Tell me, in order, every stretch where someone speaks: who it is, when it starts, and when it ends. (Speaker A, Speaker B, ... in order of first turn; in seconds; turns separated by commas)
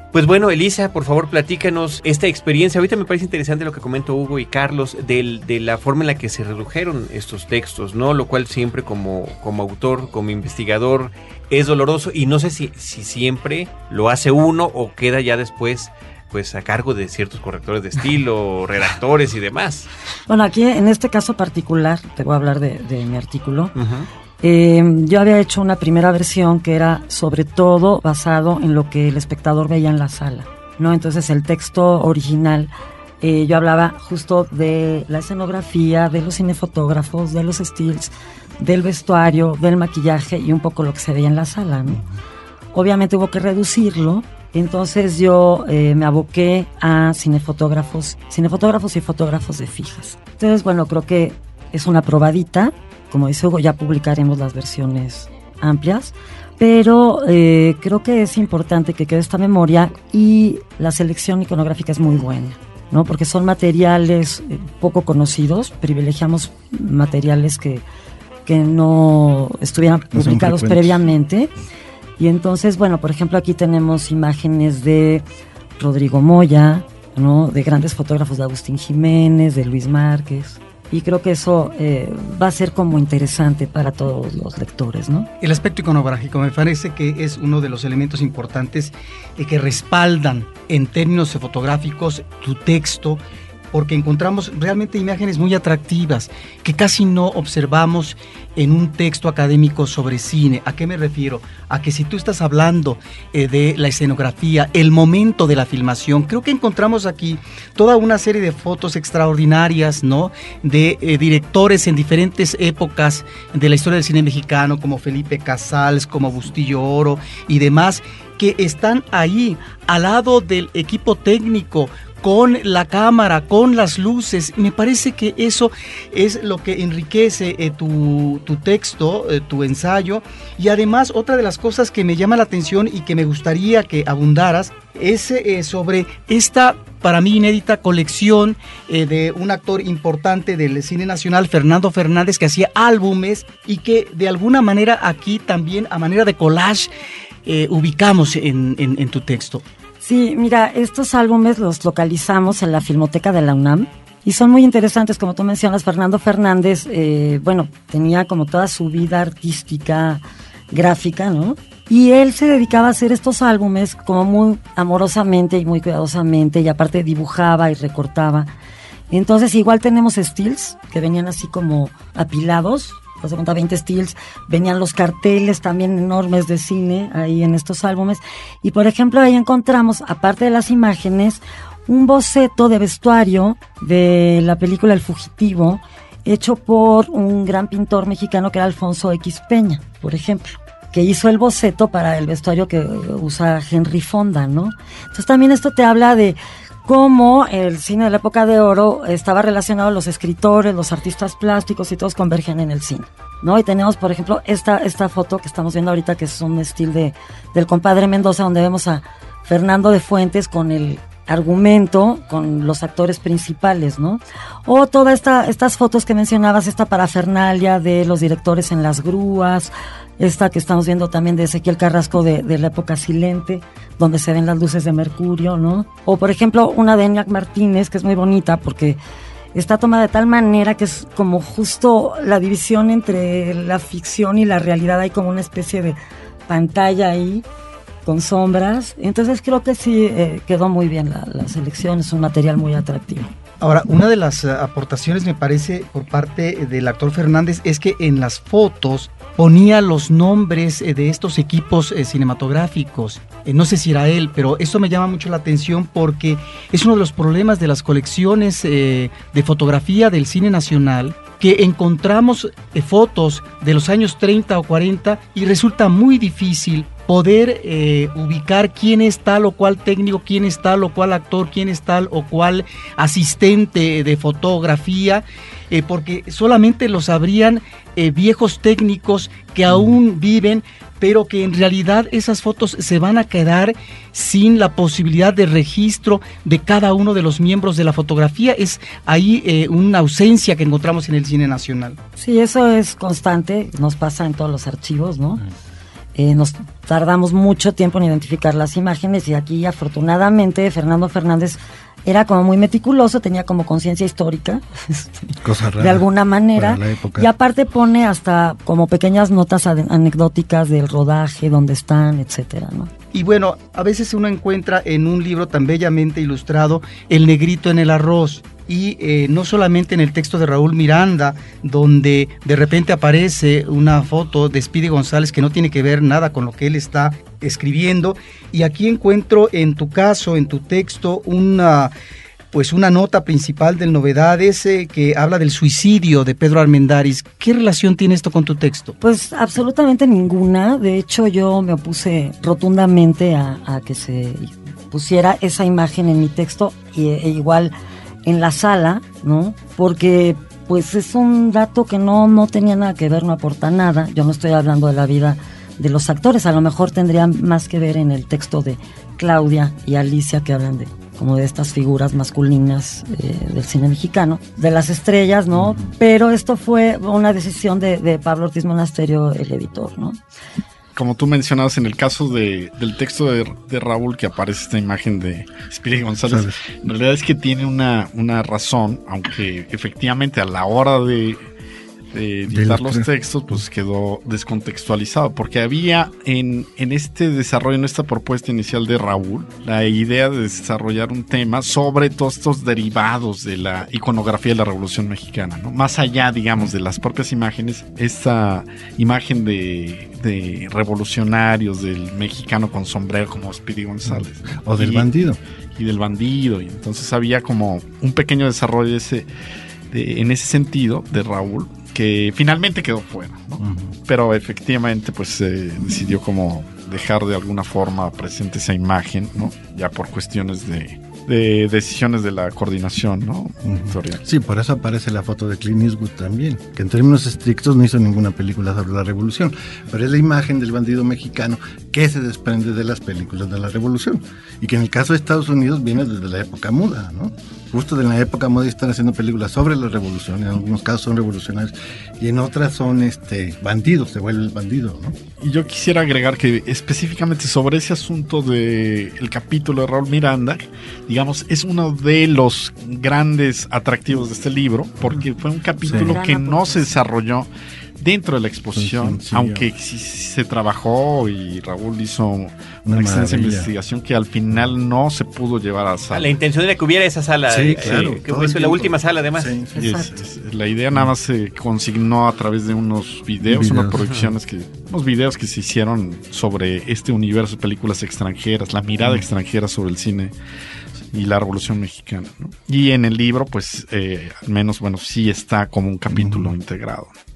Speaker A: 0.1-19.9, Speaker B: 20.3-23.7, Speaker A: 23.8-24.1, Speaker B: 24.4-42.0, Speaker B: 42.7-67.8, Speaker B: 68.5-71.5, Speaker C: 70.1-71.1, Speaker B: 72.2-75.2, Speaker B: 75.8-85.3, Speaker D: 85.4-93.2, Speaker D: 93.7-146.9, Speaker D: 147.5-149.6, Speaker B: 150.0-168.5, Speaker B: 169.1-229.0, Speaker B: 229.5-236.0, Speaker B: 236.5-237.5, Speaker B: 238.1-243.3, Speaker D: 243.6-292.0, Speaker B: 292.2-295.4, Speaker B: 296.2-312.9, Speaker C: 305.4-307.3, Speaker D: 313.1-331.9, Speaker D: 332.5-339.0, Speaker B: 339.0-347.7, Speaker B: 348.2-370.2, Speaker C: 365.5-365.9, Speaker E: 371.0-381.4, Speaker C: 376.3-376.6, Speaker E: 382.1-405.1, Speaker C: 382.5-383.6, Speaker C: 404.1-405.4, Speaker E: 405.8-409.3, Speaker E: 409.9-424.2, Speaker C: 413.6-413.9, Speaker C: 423.6-445.2, Speaker E: 445.4-466.3, Speaker B: 455.8-457.0, Speaker C: 455.9-456.2, Speaker C: 458.7-459.7, Speaker C: 462.9-463.7, Speaker A: 466.1-469.5, Speaker C: 467.5-470.1, Speaker B: 469.8-470.1, Speaker E: 469.8-480.3, Speaker C: 473.4-474.1, Speaker C: 479.0-479.3, Speaker E: 481.1-487.1, Speaker C: 486.1-486.5